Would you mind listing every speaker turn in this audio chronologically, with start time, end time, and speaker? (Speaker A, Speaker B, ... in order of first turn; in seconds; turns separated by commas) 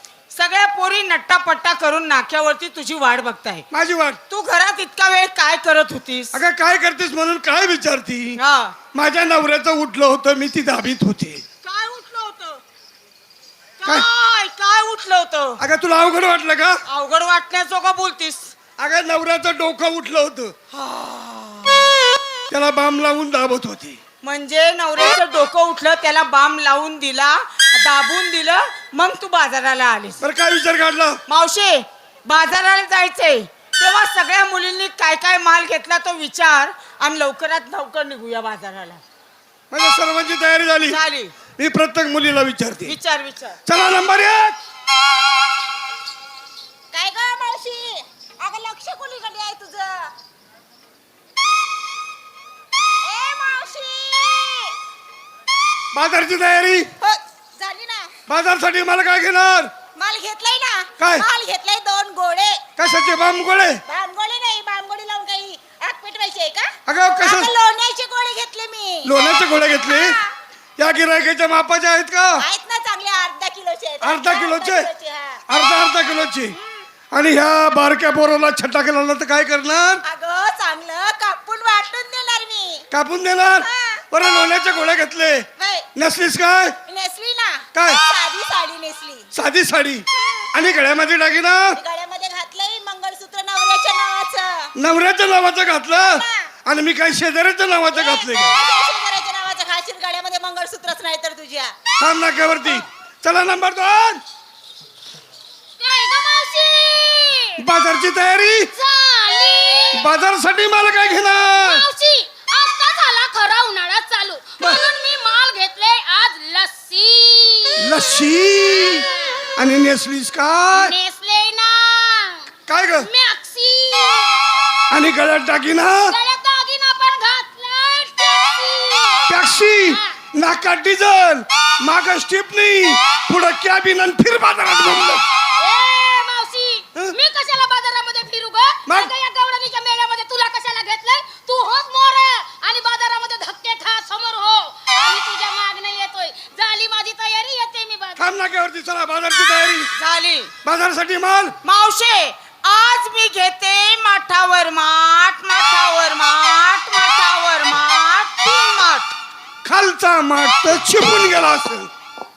Speaker A: 0.3-3.6, Speaker B: 3.7-4.2, Speaker A: 4.3-6.4, Speaker B: 6.3-8.4, Speaker A: 8.4-8.8, Speaker B: 8.9-11.4, Speaker A: 11.6-12.6, Speaker A: 13.8-15.6, Speaker B: 15.6-16.8, Speaker A: 16.9-18.5, Speaker B: 18.8-20.6, Speaker A: 20.7-21.9, Speaker B: 22.5-24.0, Speaker A: 24.2-30.2, Speaker B: 30.2-31.2, Speaker A: 31.3-39.0, Speaker B: 39.7-41.0, Speaker A: 40.9-41.3, Speaker B: 41.6-43.0, Speaker A: 42.9-43.6, Speaker B: 43.7-44.6, Speaker C: 46.9-50.1, Speaker C: 53.0-54.8, Speaker B: 55.9-56.9, Speaker C: 57.0-58.1, Speaker B: 58.3-59.7, Speaker C: 60.0-62.6, Speaker B: 61.0-61.3, Speaker B: 62.8-63.8, Speaker C: 63.9-69.1, Speaker B: 66.9-67.5, Speaker B: 69.0-70.2, Speaker C: 69.9-70.3, Speaker B: 70.8-72.5, Speaker C: 72.4-75.4, Speaker B: 74.0-74.9, Speaker B: 75.5-76.5, Speaker B: 77.1-80.0, Speaker C: 80.1-82.8, Speaker B: 82.9-86.8, Speaker C: 83.6-84.0, Speaker C: 85.6-85.9, Speaker C: 86.9-89.3, Speaker B: 87.7-88.0, Speaker B: 89.3-91.8, Speaker C: 90.2-90.5, Speaker C: 91.8-94.7, Speaker B: 94.8-98.6, Speaker C: 96.0-96.5, Speaker C: 98.0-101.7, Speaker B: 102.0-104.2, Speaker D: 105.8-107.6, Speaker B: 107.6-108.7, Speaker D: 108.8-110.0, Speaker B: 109.9-111.8, Speaker D: 111.6-117.9, Speaker B: 117.8-121.0, Speaker D: 118.9-119.5, Speaker D: 120.8-122.5, Speaker B: 122.7-123.1, Speaker D: 123.1-124.4, Speaker B: 124.9-126.2, Speaker D: 126.1-129.3, Speaker B: 129.3-135.2, Speaker D: 135.6-148.2, Speaker B: 138.9-139.1, Speaker B: 148.2-149.9, Speaker A: 150.0-150.5, Speaker B: 150.6-151.6, Speaker A: 151.6-159.1, Speaker B: 159.7-161.9